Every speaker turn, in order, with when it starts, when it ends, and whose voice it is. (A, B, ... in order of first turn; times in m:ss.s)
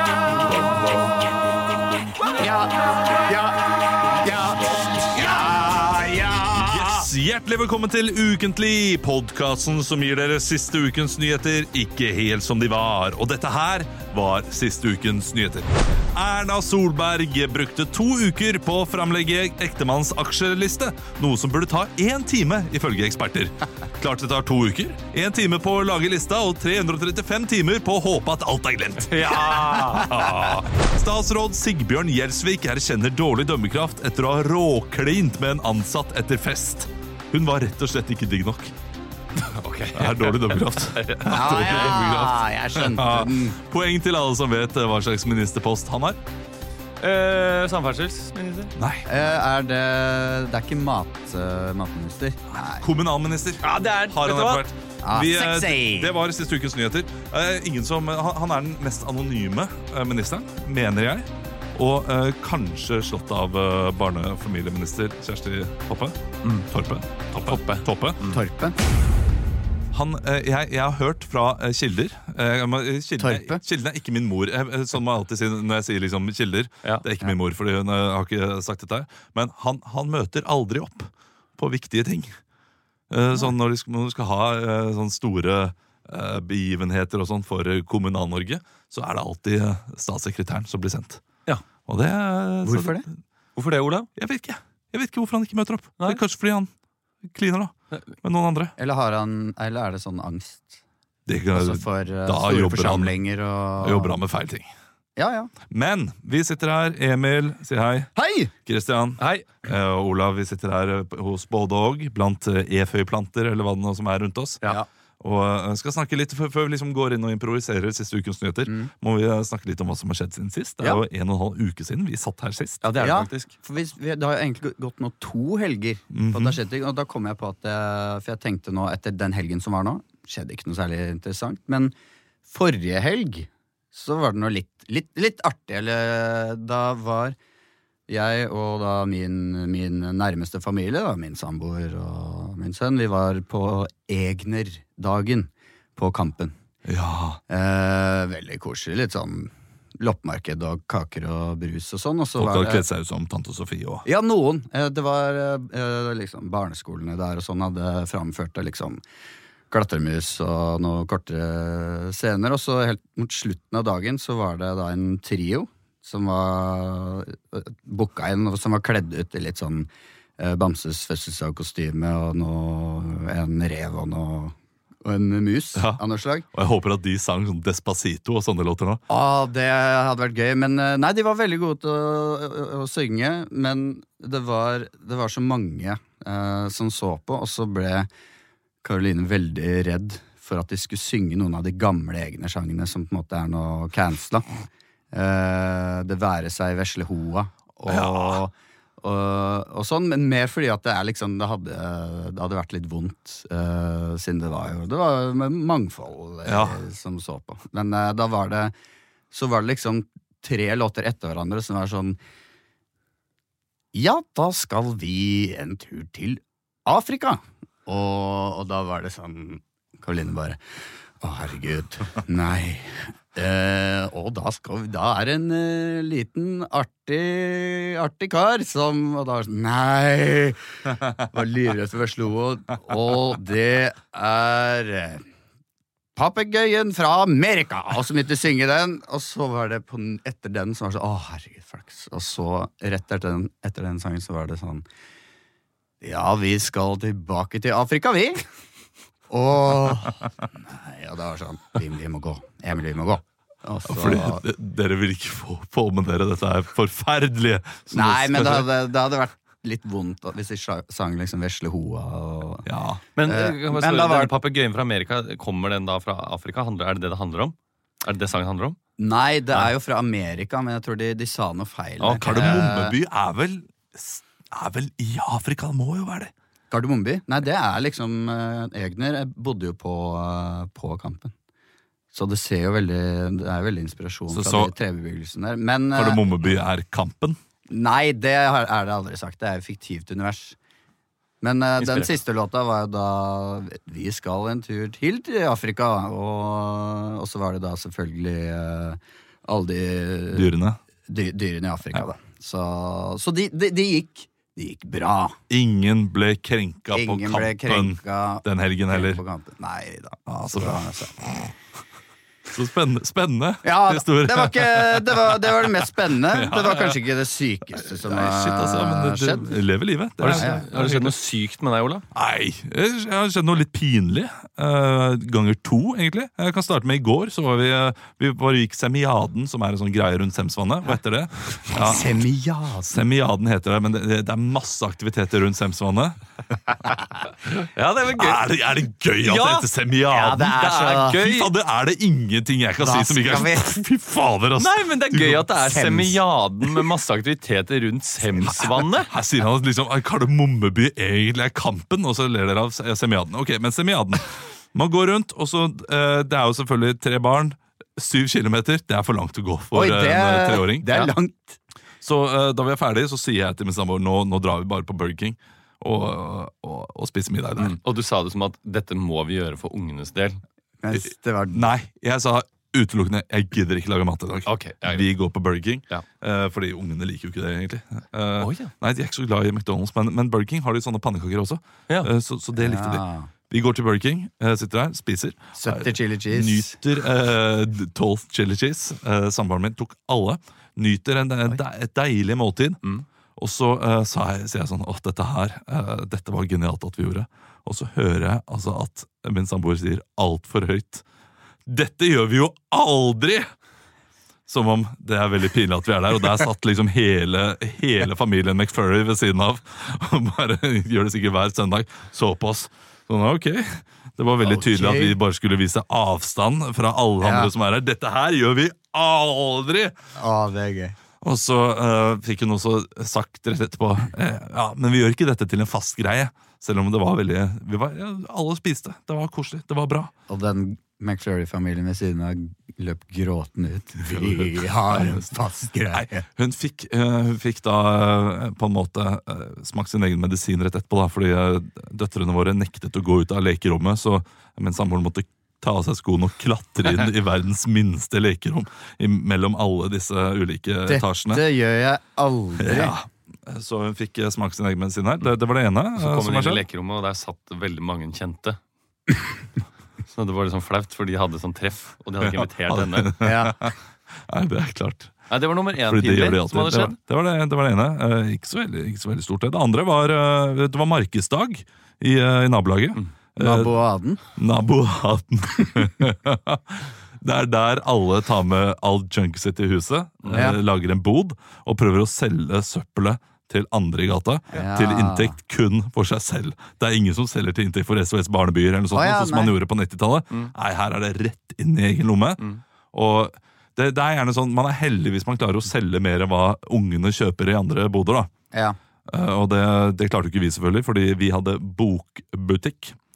0:02.4-0:06.9 A
0:06.5-0:38.7 B
0:29.1-0:30.2 C
0:39.5-0:41.7 C
0:39.9-0:46.2 B
0:41.2-0:43.6 A
0:47.0-0:48.7 C
0:48.8-0:49.1 B
0:49.0-0:52.9 A
0:52.5-1:08.2 B
0:53.6-0:54.6 C
0:55.0-0:56.1 A
1:07.4-1:08.4 C
1:08.3-1:08.8 A
1:09.9-1:22.4 B
1:13.2-1:13.6 A
1:23.1-1:31.2 B
1:31.9-1:33.0 B
1:32.6-1:33.0 A
1:33.6-1:34.1 C
1:34.2-1:36.7 B
1:37.2-1:38.8 B
1:38.8-1:40.8 A
1:41.3-1:43.1 B
1:41.5-1:44.2 A
1:43.8-1:44.7 B
1:45.2-1:45.5 A
1:45.7-1:48.1 B
1:48.2-1:48.5 A
1:48.6-1:54.6 B
1:49.2-1:49.6 C
1:55.2-2:02.9 B
1:58.7-1:58.9 A
2:02.8-2:03.5 C
2:03.0-2:11.9 A
2:06.1-2:06.6 B
2:12.5-2:17.4 A
2:18.1-2:26.5 A
2:26.8-2:27.4 B
2:27.5-2:32.8 A
2:32.4-2:34.0 B
2:34.0-2:39.0 A
2:39.7-2:56.4 A
2:55.8-2:56.0 B
2:56.5-2:59.0 B
2:59.1-3:08.1 A
3:08.8-3:14.4 A
3:15.1-3:28.7 A
3:17.9-3:18.4 B
3:26.4-3:26.8 B
3:29.3-3:32.2 A
3:33.9-3:40.6 A
3:41.2-3:50.6 A
3:51.2-3:55.2 A
3:56.2-4:04.8 A
4:06.0-4:08.4 A
4:09.3-4:14.4 A
4:13.9-4:18.6 B
4:17.9-4:22.7 A
4:22.6-4:23.0 B
4:23.2-4:28.8 C
4:23.2-4:24.3 A
4:29.0-4:32.9 A
4:32.0-4:32.6 C
4:32.2-4:36.3 B
4:36.7-4:41.3 A
4:42.1-4:46.2 A
4:44.3-4:44.7 B
4:45.9-4:47.4 B
4:47.7-4:50.6 A
4:51.4-5:00.5 A
4:51.8-4:52.1 C
5:00.3-5:00.8 B
5:01.1-5:05.4 A
5:05.5-5:09.2 B
5:06.9-5:11.2 A
5:10.3-5:11.5 B
5:12.5-5:17.0 B
5:13.6-5:19.6 A
5:17.8-5:21.2 B
5:20.2-5:22.0 C
5:20.2-5:20.6 A
5:22.1-5:32.2 B
5:31.7-5:33.0 A
5:32.8-5:36.2 B
5:37.6-5:38.4 C
5:38.1-5:45.5 B
5:39.2-5:39.7 C
5:40.1-5:41.2 A
5:40.6-5:41.5 C
5:42.8-5:43.8 A
5:44.6-5:49.1 C
5:45.6-5:46.2 A
5:48.3-6:00.9 B
5:59.7-6:01.6 A
6:02.0-6:07.8 B
6:07.6-6:10.4 C
6:10.8-6:11.7 A
6:11.5-6:32.8 B
6:14.4-6:15.1 C
6:18.4-6:18.7 C
6:22.6-6:23.3 A
6:25.6-6:26.8 A
6:33.4-6:41.0 B
6:41.6-6:43.5 B
6:44.5-6:59.9 B
6:54.4-6:55.2 A
6:57.2-6:57.5 A
7:00.2-7:00.9 A
7:01.2-7:10.1 B
7:10.3-7:16.2 A
7:14.0-7:15.3 B
7:15.9-7:31.4 B
7:30.9-7:32.9 A
7:32.6-7:36.6 B
7:36.0-7:38.6 C
7:40.1-7:43.1 C
7:42.4-7:43.8 B
7:43.2-7:43.6 A
7:44.3-7:45.1 B
7:45.3-7:46.9 C
7:45.8-7:53.7 B
7:53.4-7:54.2 A
7:54.3-8:18.3 B
8:00.2-8:00.5 C
8:00.3-8:00.6 A
8:04.5-8:05.4 A
8:08.9-8:09.5 A
8:19.1-8:23.0 B